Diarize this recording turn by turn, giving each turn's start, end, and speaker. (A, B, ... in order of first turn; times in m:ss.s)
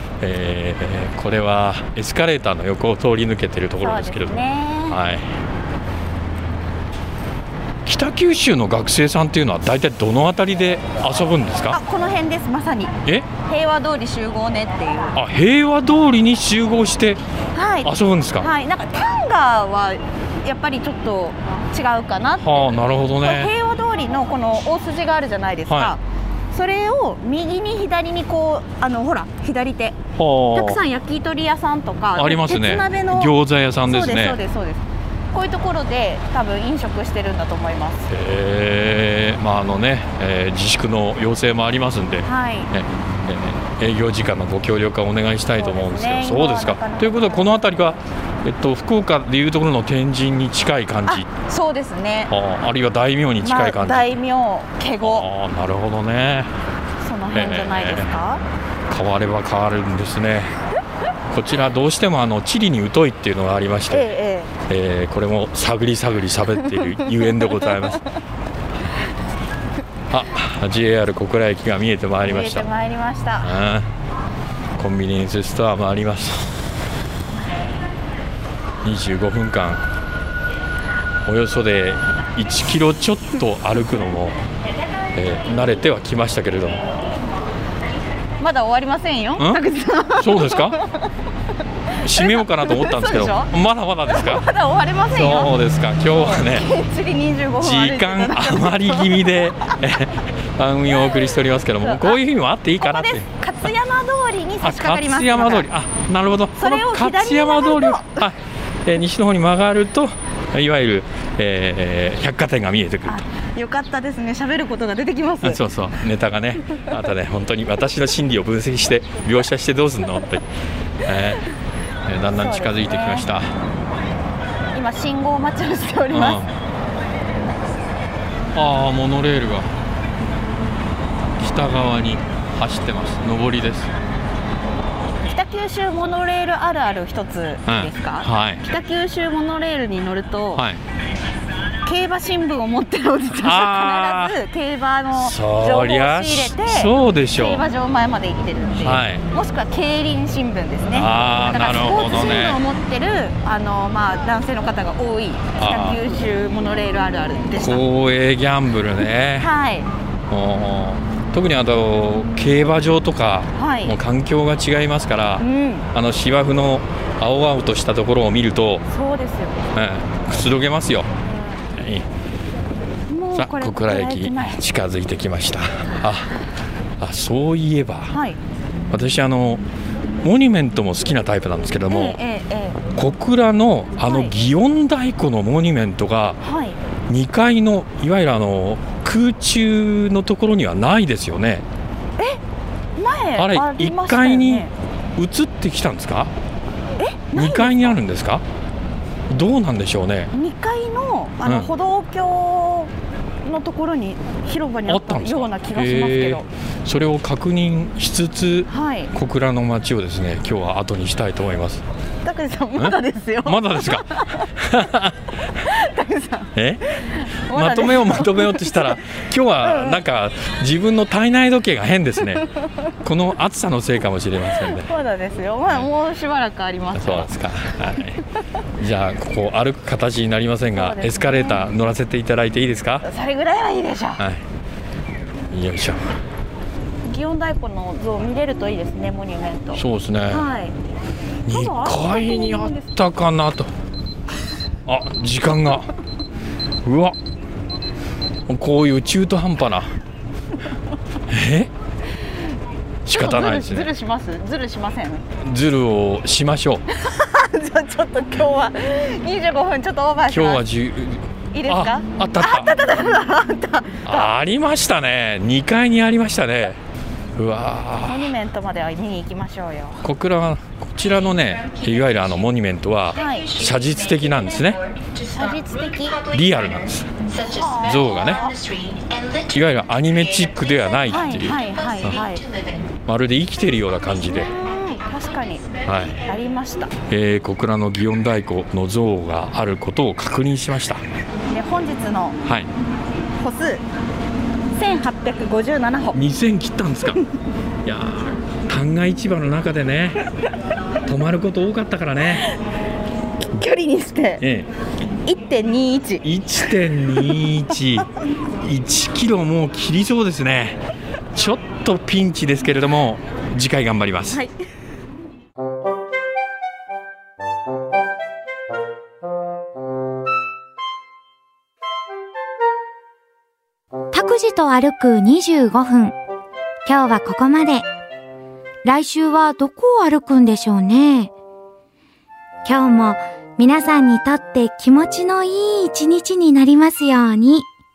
0:00.2-0:05.3 A
0:03.8-0:05.0 B
0:07.8-0:11.8 A
0:11.7-0:15.2 B
0:15.2-0:17.2 A
0:17.6-0:26.0 B
0:17.8-0:18.5 A
0:22.4-0:23.5 A
0:25.7-0:26.0 A
0:26.5-0:30.0 B
0:30.2-0:30.8 A
0:30.5-0:33.3 B
0:32.2-0:34.4 A
0:33.9-0:38.1 B
0:38.1-0:51.3 A
0:42.3-0:42.7 B
0:45.6-0:47.7 B
0:51.1-0:52.3 B
0:52.3-0:54.2 A
0:53.4-0:55.3 B
0:55.0-0:56.5 A
0:57.0-0:58.4 B
0:57.3-0:58.1 A
0:58.9-1:00.5 A
1:01.3-1:04.1 A
1:03.9-1:04.6 B
1:04.7-1:08.0 A
1:10.1-1:12.7 A
1:12.2-1:13.6 B
1:13.4-1:13.9 A
1:14.8-1:16.6 A
1:18.8-1:19.8 A
1:21.3-1:24.4 A
1:25.1-1:26.9 A
1:28.4-1:31.1 B
1:29.4-1:29.6 A
1:30.2-1:30.8 A
1:32.0-1:33.5 B
1:32.0-1:34.5 A
1:34.1-1:35.5 B
1:35.1-1:36.7 A
1:36.1-1:39.8 B
1:37.6-1:43.3 A
1:41.8-1:42.2 B
1:42.8-1:45.7 B
1:44.6-1:53.3 A
1:46.6-1:48.2 B
1:53.1-1:55.6 B
1:55.4-2:00.5 A
2:01.0-2:01.4 A
2:02.1-2:03.5 A
2:02.3-2:03.3 B
2:04.8-2:06.4 B
2:06.1-2:06.5 A
2:08.5-2:09.7 A
2:11.4-2:13.9 A
2:15.3-2:20.6 B
2:17.7-2:18.6 A
2:21.8-2:37.8 B
2:23.3-2:24.4 A
2:25.1-2:27.6 A
2:28.8-2:29.2 A
2:30.9-2:32.6 A
2:35.6-2:36.0 A
2:37.6-2:39.5 A
2:39.4-2:39.9 B
2:40.3-2:48.8 A
2:43.6-2:44.0 B
2:45.4-2:45.9 B
2:48.9-2:49.6 B
2:49.7-2:51.1 A
2:51.3-2:51.6 B
2:51.7-2:52.1 A
2:53.1-2:54.6 B
2:53.4-2:56.3 A
2:57.0-2:58.2 A
2:58.1-2:58.4 B
2:58.9-2:59.6 A
3:00.2-3:02.2 A
3:01.9-3:02.8 B
3:02.9-3:06.4 A
3:04.0-3:04.3 B
3:06.4-3:06.8 B
3:07.1-3:11.7 A
3:13.0-3:14.7 B
3:13.4-3:16.3 A
3:17.0-3:18.0 B
3:17.4-3:18.4 A
3:19.3-3:20.3 A
3:20.3-3:22.9 B
3:21.4-3:21.7 A
3:23.4-3:26.5 B
3:24.9-3:31.8 A
3:28.7-3:29.1 B
3:32.2-3:34.5 B
3:32.8-3:35.4 A
3:35.6-3:39.0 B
3:36.6-3:36.8 A
3:37.5-3:42.5 A
3:39.6-3:40.0 B
3:42.5-3:42.9 B
3:43.0-3:44.9 A
3:44.6-3:47.3 B
3:47.0-3:48.2 A
3:48.8-3:53.0 A
3:50.8-3:51.6 B
3:53.0-3:54.2 B
3:54.2-3:54.5 A
3:55.5-3:56.1 A
3:57.0-4:00.8 B
3:59.8-4:00.5 A
4:01.4-4:03.7 A
4:01.5-4:02.9 B
4:04.9-4:05.9 A
4:06.8-4:07.2 A
4:08.5-4:09.9 A
4:11.3-4:11.7 A
4:13.0-4:13.9 A
4:13.1-4:15.3 B
4:15.4-4:16.8 A
4:16.9-4:20.6 B
4:20.3-4:22.8 A
4:21.5-4:24.3 B
4:24.1-4:26.8 A
4:27.4-4:28.3 A
4:28.0-4:30.0 B
4:30.0-4:34.8 A
4:33.2-4:33.6 B
4:35.2-4:36.3 B
4:36.2-4:38.5 A
4:37.4-4:38.9 B
4:39.4-4:41.7 A
4:41.1-4:42.5 B
4:43.0-4:44.5 A
4:44.3-4:46.9 B
4:45.8-4:46.2 A
4:47.1-4:51.0 A
4:51.5-4:52.4 B
4:52.4-4:52.7 A
4:53.4-4:53.8 B
4:54.8-4:56.2 B
4:56.1-4:57.2 A
4:57.8-5:00.2 A
5:01.0-5:02.5 A
5:03.5-5:04.4 B
5:04.4-5:04.7 A
5:05.3-5:06.2 B
5:06.2-5:10.8 A
5:11.3-5:14.4 A
5:24.1-5:26.2 C
5:26.9-5:27.9 C
5:28.8-5:31.3 C
5:32.6-5:37.7 C